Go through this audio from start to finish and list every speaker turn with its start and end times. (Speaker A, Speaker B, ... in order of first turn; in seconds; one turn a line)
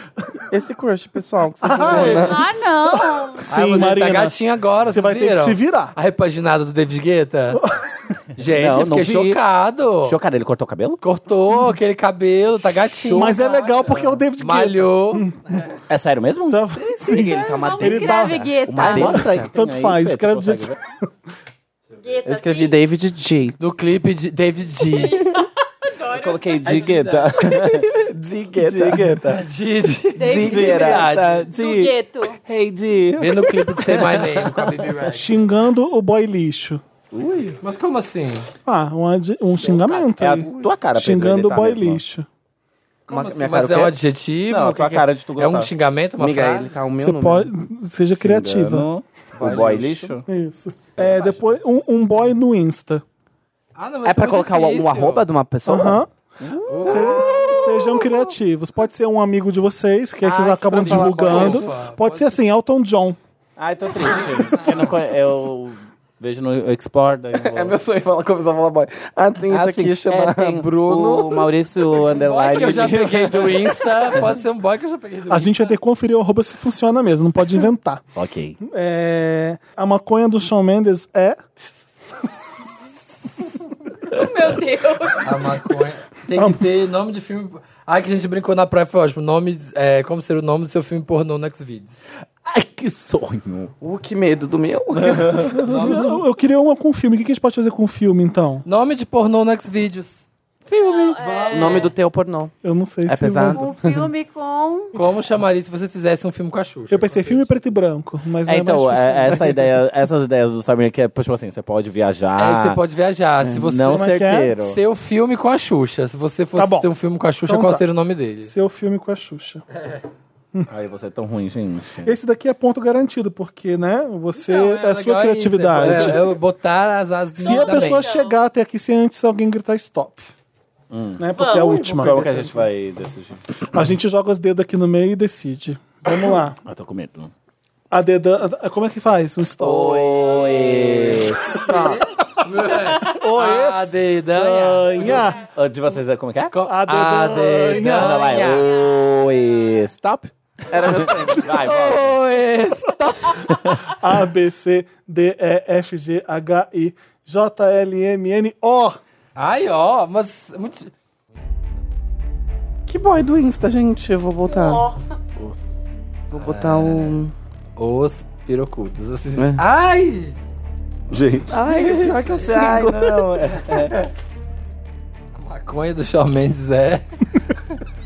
Speaker A: 0.5-2.4
Speaker B: 1.6-5.9
Speaker C: 1.9-2.2
Speaker D: 2.1-3.5
Speaker C: 3.5-7.6
Speaker B: 7.6-7.8
Speaker C: 8.4-10.2
Speaker E: 8.5-9.4
Speaker E: 10.0-11.0
Speaker C: 11.0-15.3
Speaker B: 12.7-15.6
Speaker E: 15.9-16.8
Speaker B: 16.5-20.8
Speaker A: 17.0-18.4
Speaker D: 17.1-19.2
Speaker E: 18.7-20.8
Speaker A: 19.1-19.5
Speaker D: 22.0-22.8
Speaker A: 22.2-23.6
Speaker C: 23.6-25.2
Speaker D: 24.9-27.6
Speaker E: 26.1-28.0
Speaker A: 27.6-29.2
Speaker E: 28.6-29.5
Speaker C: 29.3-31.5
Speaker D: 30.2-32.4
Speaker E: 30.2-34.9
Speaker C: 33.2-35.4
Speaker B: 35.1-36.8
Speaker E: 37.1-37.6
Speaker C: 37.6-38.5
Speaker B: 38.7-42.3
Speaker E: 40.2-42.0
Speaker C: 43.1-46.8
Speaker A: 43.1-43.9
Speaker E: 44.5-45.7
Speaker A: 46.2-47.5
Speaker B: 47.0-48.9
Speaker E: 48.2-50.2
Speaker C: 49.4-50.1
Speaker B: 50.3-53.0
Speaker E: 51.0-51.3
Speaker C: 53.8-55.3
Speaker A: 54.0-56.0
Speaker B: 55.6-56.1
Speaker E: 56.4-58.1
Speaker C: 56.7-57.3
Speaker B: 56.8-63.2
Speaker E: 60.2-61.6
Speaker A: 60.7-61.6
Speaker C: 61.3-62.4
Speaker E: 63.6-67.8
Speaker C: 64.5-64.8
Speaker A: 67.3-71.5
Speaker E: 69.5-74.3
Speaker C: 72.0-75.7
Speaker B: 75.3-78.0
Speaker E: 78.2-78.6
Speaker B: 78.6-81.5
Speaker D: 84.1-85.5
Speaker C: 85.2-92.0
Speaker B: 86.3-86.6
Speaker E: 92.5-93.7
Speaker A: 93.8-95.5
Speaker E: 94.9-96.0
Speaker B: 95.5-98.6
Speaker C: 95.7-96.2
Speaker C: 98.7-100.2
Speaker E: 100.7-101.2
Speaker D: 100.7-101.9
Speaker C: 101.2-101.9
Speaker A: 101.5-102.5
Speaker B: 102.6-103.7
Speaker A: 103.1-103.7
Speaker D: 103.5-105.0
Speaker C: 104.9-107.6
Speaker B: 106.9-109.7
Speaker E: 108.5-112.8
Speaker C: 112.4-118.5
Speaker E: 113.4-114.8
Speaker B: 113.8-114.5
Speaker B: 116.6-116.9
Speaker B: 117.5-117.8
Speaker B: 118.4-119.6
Speaker E: 120.7-122.1
Speaker B: 122.0-126.4
Speaker C: 124.3-128.1
Speaker E: 125.8-126.2
Speaker B: 127.4-130.3
Speaker D: 127.4-128.4
Speaker E: 130.9-131.2
Speaker B: 131.2-132.5
Speaker D: 131.4-131.6
Speaker A: 131.4-132.5
Speaker E: 131.8-133.4
Speaker B: 133.7-136.6
Speaker E: 136.6-137.3
Speaker B: 137.9-140.2
Speaker A: 139.6-141.0
Speaker E: 139.7-141.6
Speaker B: 141.6-142.1
Speaker C: 141.7-145.3
Speaker B: 143.0-145.4
Speaker E: 145.0-146.6
Speaker C: 146.5-148.7
Speaker B: 146.7-148.6
Speaker E: 147.9-152.2
Speaker D: 148.5-149.0
Speaker A: 150.7-151.5
Speaker C: 151.5-153.5
Speaker E: 153.4-154.0
Speaker B: 154.0-159.0
Speaker C: 159.4-160.9
Speaker A: 162.9-164.9
Speaker D: 164.5-165.0
Speaker E: 165.4-165.7
Speaker A: 166.3-167.3
Speaker C: 166.4-167.2
Speaker C: 167.8-170.4
Speaker A: 169.4-169.6
Speaker E: 171.1-174.0
Speaker A: 171.5-173.3
Speaker C: 173.7-174.0
Speaker C: 175.3-177.0